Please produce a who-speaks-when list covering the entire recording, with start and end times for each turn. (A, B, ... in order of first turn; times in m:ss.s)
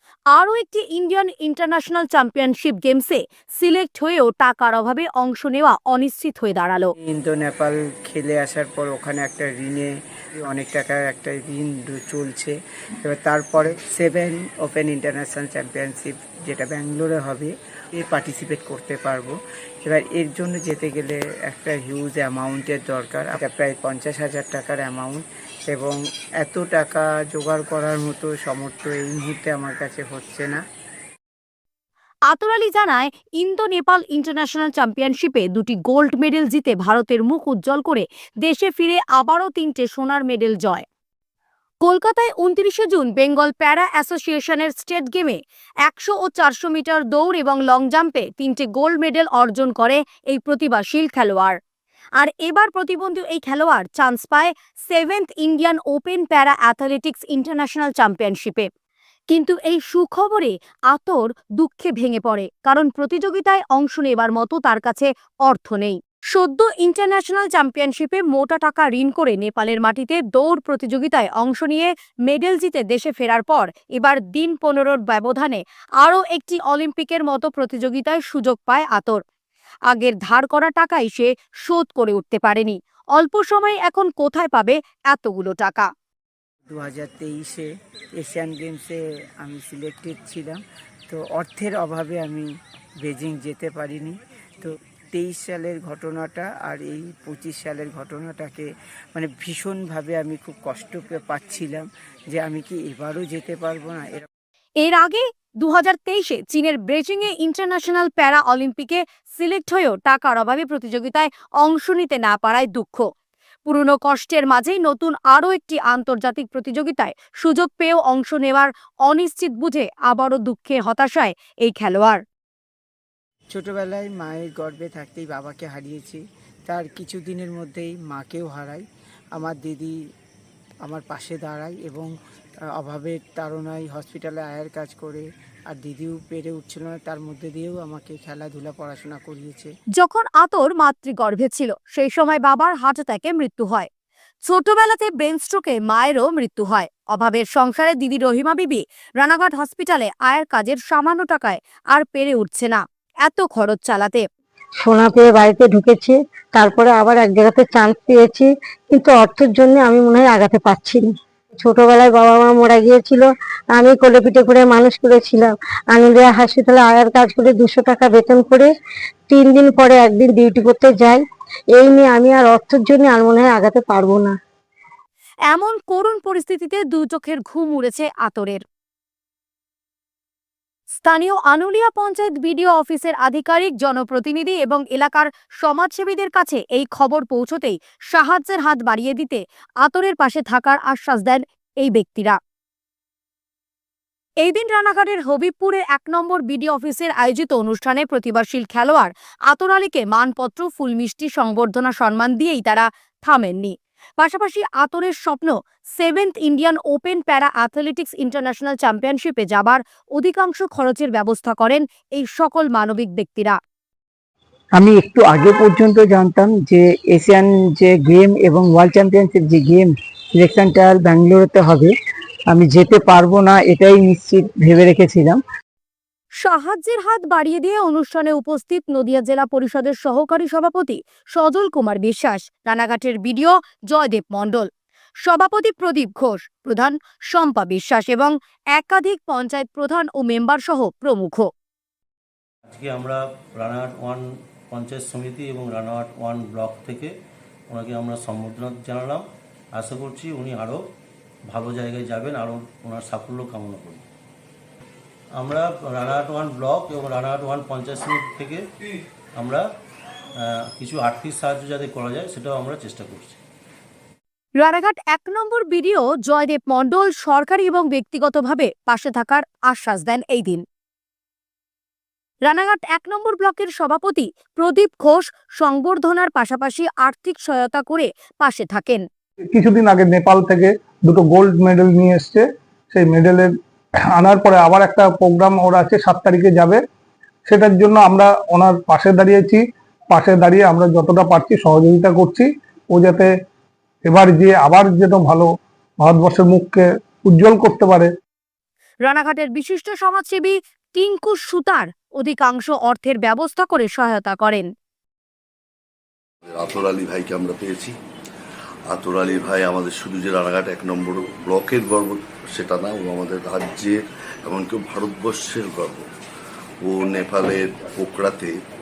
0:00.3-0:06.9 A
0:07.0-0:19.3 B
0:19.8-0:30.6 B
0:32.3-0:40.8 A
0:41.8-0:51.6 A
0:52.2-0:58.7 A
0:59.3-1:19.2 A
1:19.9-1:25.9 A
1:26.7-1:27.7 B
1:28.2-1:32.5 B
1:33.0-1:44.3 B
1:44.8-1:53.0 A
1:53.6-2:02.2 A
2:03.5-2:08.8 B
2:09.4-2:09.9 B
2:10.8-2:12.1 B
2:12.8-2:19.7 B
2:20.0-2:23.9 A
2:24.4-2:34.2 A
2:34.8-2:48.7 C
2:49.3-2:51.2 C
2:51.8-2:54.3 C
2:55.5-2:58.6 A
3:00.9-3:12.4 A
3:14.4-3:33.6 A
3:34.8-3:41.9 D
3:42.5-3:45.4 D
3:46.4-3:54.7 A
3:55.2-4:01.5 A
4:02.7-4:07.1 E
4:07.7-4:10.8 E
4:11.5-4:14.0 E
4:15.4-4:18.6 E
4:19.4-4:19.6 E
4:20.4-4:23.4 E
4:24.6-4:30.6 A
4:32.4-4:39.0 A
4:39.5-4:43.5 F
4:44.1-4:46.8 F
4:47.5-4:53.3 F
4:54.0-4:55.5 F
4:56.0-4:58.1 F
4:59.0-5:04.6 A
5:06.4-5:07.9 G
5:08.9-5:16.0 G
5:16.8-5:18.5 G